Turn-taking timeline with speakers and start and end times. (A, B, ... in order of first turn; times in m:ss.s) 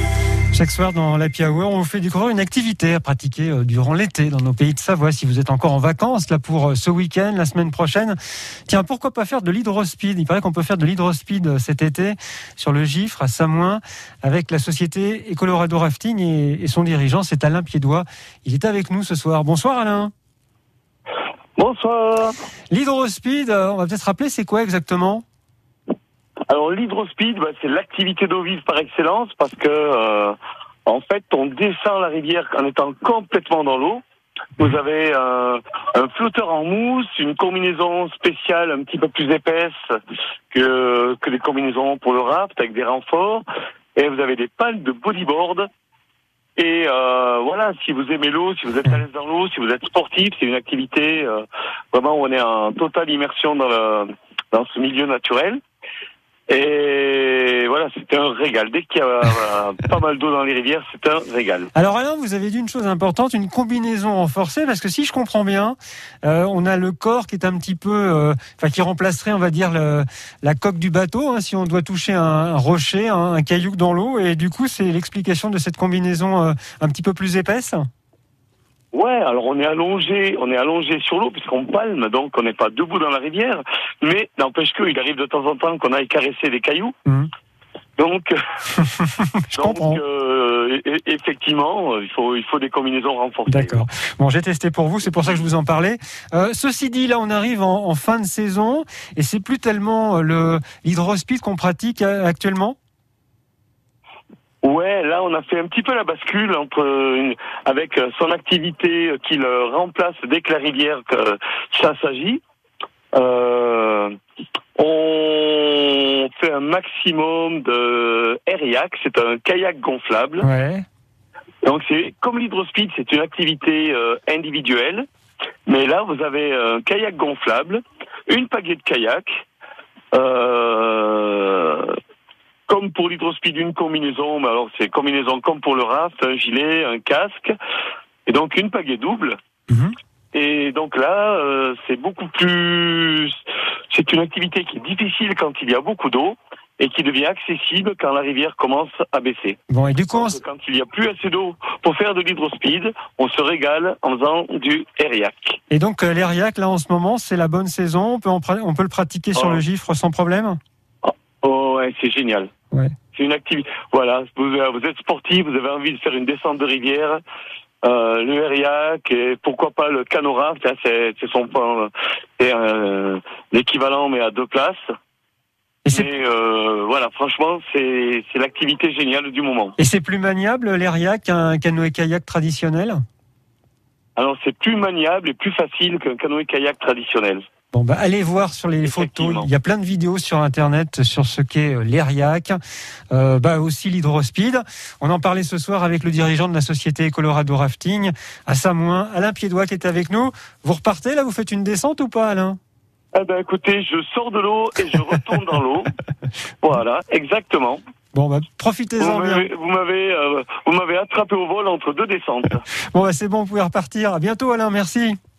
0:00.5-0:08.2 A
0:08.7-0:20.1 A
0:21.6-0:22.4 B
0:22.7-0:25.2 A
0:26.5-0:34.0 B
0:34.6-0:39.8 B
0:40.5-0:43.4 B
0:44.0-0:45.6 B
0:46.6-0:55.6 B
0:56.5-1:01.7 B
1:01.7-1:17.8 A
1:18.9-1:26.9 B
1:28.0-1:28.4 B
1:28.7-1:30.0 A
1:29.5-1:33.8 B
1:33.5-1:42.8 A
1:35.2-1:35.4 B
1:44.6-1:52.4 B
1:53.1-1:54.1 B
1:54.8-2:00.5 B
2:00.4-2:00.8 A
2:01.6-2:05.1 B
2:05.7-2:09.4 B
2:10.1-2:12.0 B
2:12.7-2:17.5 B
2:18.2-2:19.4 B
2:19.7-2:19.9 A
2:20.3-2:23.4 B
2:23.9-2:29.6 B
2:29.7-2:30.4 A
2:30.1-2:35.6 B
2:35.7-2:40.6 A
2:39.3-2:39.6 B
2:41.0-2:42.5 B
2:43.1-2:47.2 B
2:47.8-2:54.8 B
2:55.9-2:59.8 B
2:59.8-3:03.0 A
3:04.2-3:07.4 B
3:07.7-3:12.6 A
3:08.8-3:09.5 B
3:13.1-3:22.6 A
3:23.1-3:25.9 B
3:26.6-3:27.8 B
3:28.1-3:29.5 A
3:29.0-3:32.6 B
3:32.9-3:35.2 A